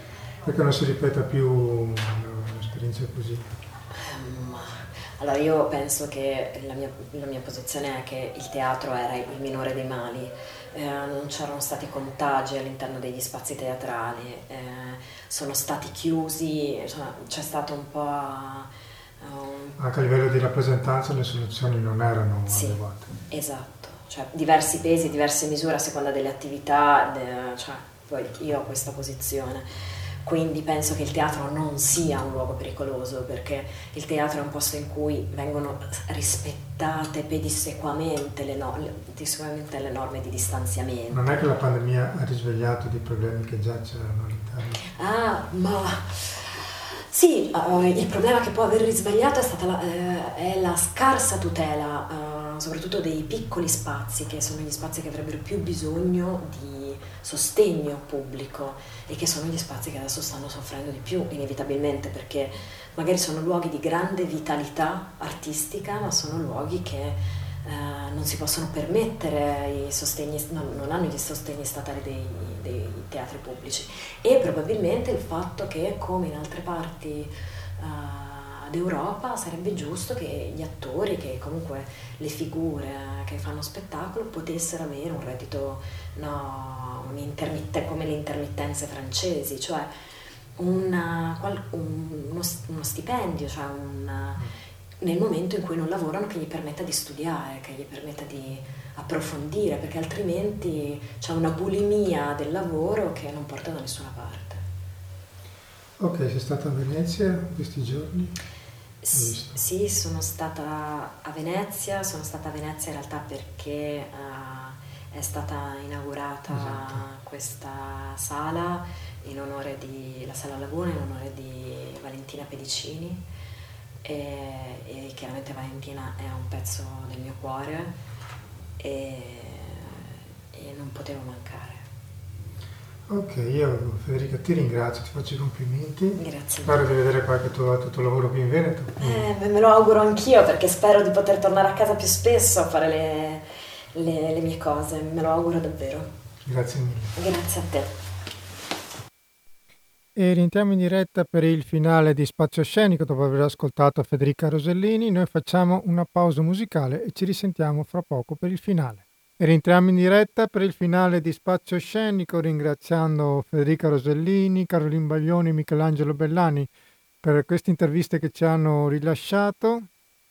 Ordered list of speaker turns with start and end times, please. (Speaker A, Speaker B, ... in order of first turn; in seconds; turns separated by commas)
Speaker A: 0.4-3.5, Speaker B: 4.0-18.7, Speaker B: 19.2-19.8, Speaker A: 19.8-23.1, Speaker B: 22.5-22.8, Speaker B: 23.3-29.7, Speaker B: 30.2-41.3, Speaker A: 41.1-44.8, Speaker B: 45.0-89.9, Speaker B: 90.6-94.4, Speaker B: 95.0-104.6, Speaker A: 106.0-108.4, Speaker B: 109.0-123.2, Speaker A: 109.1-109.6, Speaker A: 116.5-117.0, Speaker B: 124.0-128.0, Speaker B: 128.8-131.8, Speaker A: 133.1-139.2, Speaker B: 136.2-136.8, Speaker B: 139.0-146.1, Speaker A: 146.4-147.2, Speaker B: 147.2-147.9, Speaker A: 150.2-166.7, Speaker A: 167.2-169.9